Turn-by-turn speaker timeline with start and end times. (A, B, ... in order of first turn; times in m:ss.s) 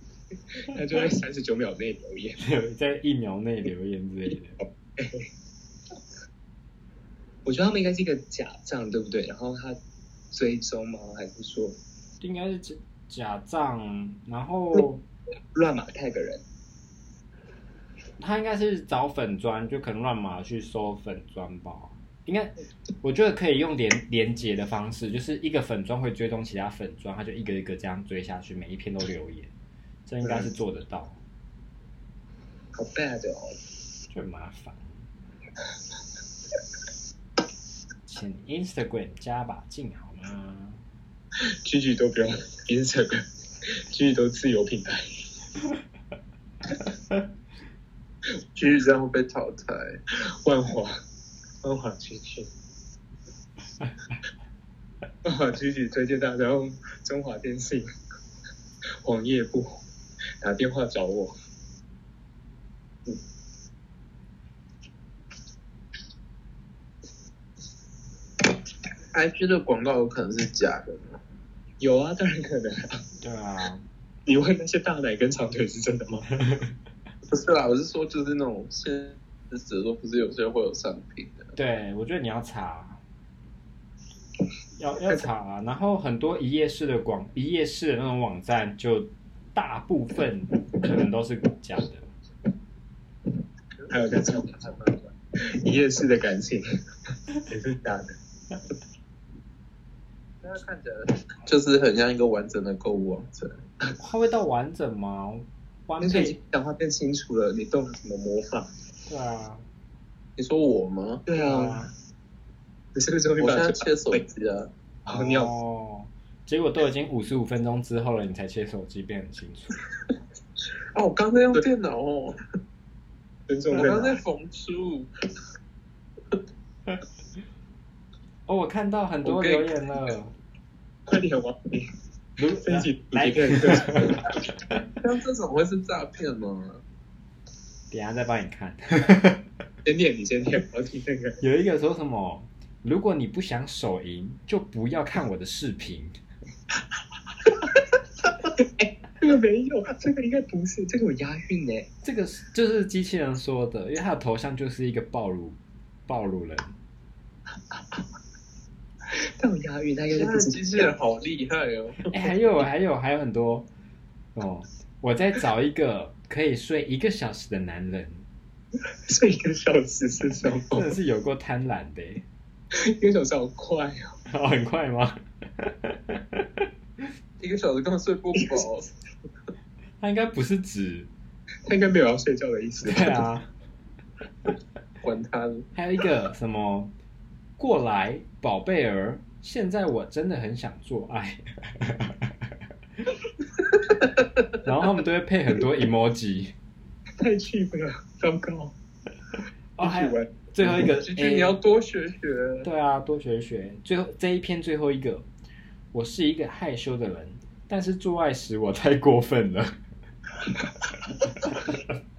0:00.6-0:02.4 A
0:02.4-0:04.6 B
0:05.0-0:05.3 A
0:07.4-0:09.8 A
0:10.3-0:11.8 A
0:12.2-0:15.0 B
0:15.5-0:16.4 A
0:18.2-0:29.5 B
0:30.0-0:31.2 B
0:30.2-0:30.5 A
0:32.7-0:33.5 A
0:34.1-0:35.0 B
0:38.0-0:40.8 B
0:41.6-0:43.2 A
0:43.9-0:45.0 A
0:48.5-0:50.0 C
0:50.4-0:51.0 A
0:51.6-0:52.5 A
0:53.8-0:54.1 B
0:55.2-0:57.9 A
0:59.0-0:59.8 A
1:00.4-1:01.3 A
1:09.1-1:11.2 C
1:11.8-1:13.0 A
1:13.2-1:13.8 B
1:14.2-1:16.3 A
1:16.4-1:16.7 B
1:17.3-1:21.5 C
1:21.5-1:23.0 B
1:24.8-1:32.1 B
1:33.8-1:35.0 C
1:33.9-1:34.8 A
1:35.5-1:36.6 A
1:37.5-1:38.1 A
1:40.4-1:43.6 C
1:44.0-1:46.4 B
1:46.0-1:48.7 A
1:49.1-1:49.6 B
1:50.4-1:51.2 C
1:51.2-1:51.9 A
1:51.3-1:51.9 B
1:52.9-1:54.2 A
1:53.4-1:54.7 C
1:55.0-1:55.5 A
1:55.1-1:59.8 B
2:00.9-2:02.4 C
2:03.5-2:04.2 A
2:03.7-2:05.1 C
2:08.5-2:10.3 B
2:09.2-2:09.7 C
2:11.1-2:11.9 A
2:12.4-2:14.3 B
2:12.6-2:14.4 A
2:14.9-2:16.8 C
2:17.9-2:19.4 B
2:19.8-2:21.4 A
2:21.4-2:26.1 B
2:28.6-2:31.9 A
2:32.0-2:36.8 B
2:37.7-2:38.0 A
2:39.1-2:40.9 A
2:40.1-2:42.3 C
2:42.1-2:43.7 B
2:44.3-2:48.2 B
2:49.1-2:50.9 A
2:50.7-2:52.2 B
2:52.7-2:54.2 A
2:54.3-2:56.6 B
2:57.4-2:58.9 C
2:58.4-2:58.6 A
3:00.0-3:01.1 B
3:01.6-3:03.2 A
3:02.8-3:03.5 B
3:05.0-3:05.7 C
3:05.7-3:06.9 B
3:07.6-3:12.3 B
3:14.6-3:16.5 B
3:17.2-3:18.7 A
3:19.8-3:21.6 B
3:19.8-3:20.7 A
3:21.0-3:22.7 C
3:22.6-3:25.3 B
3:25.9-3:29.8 B
3:31.2-3:31.9 B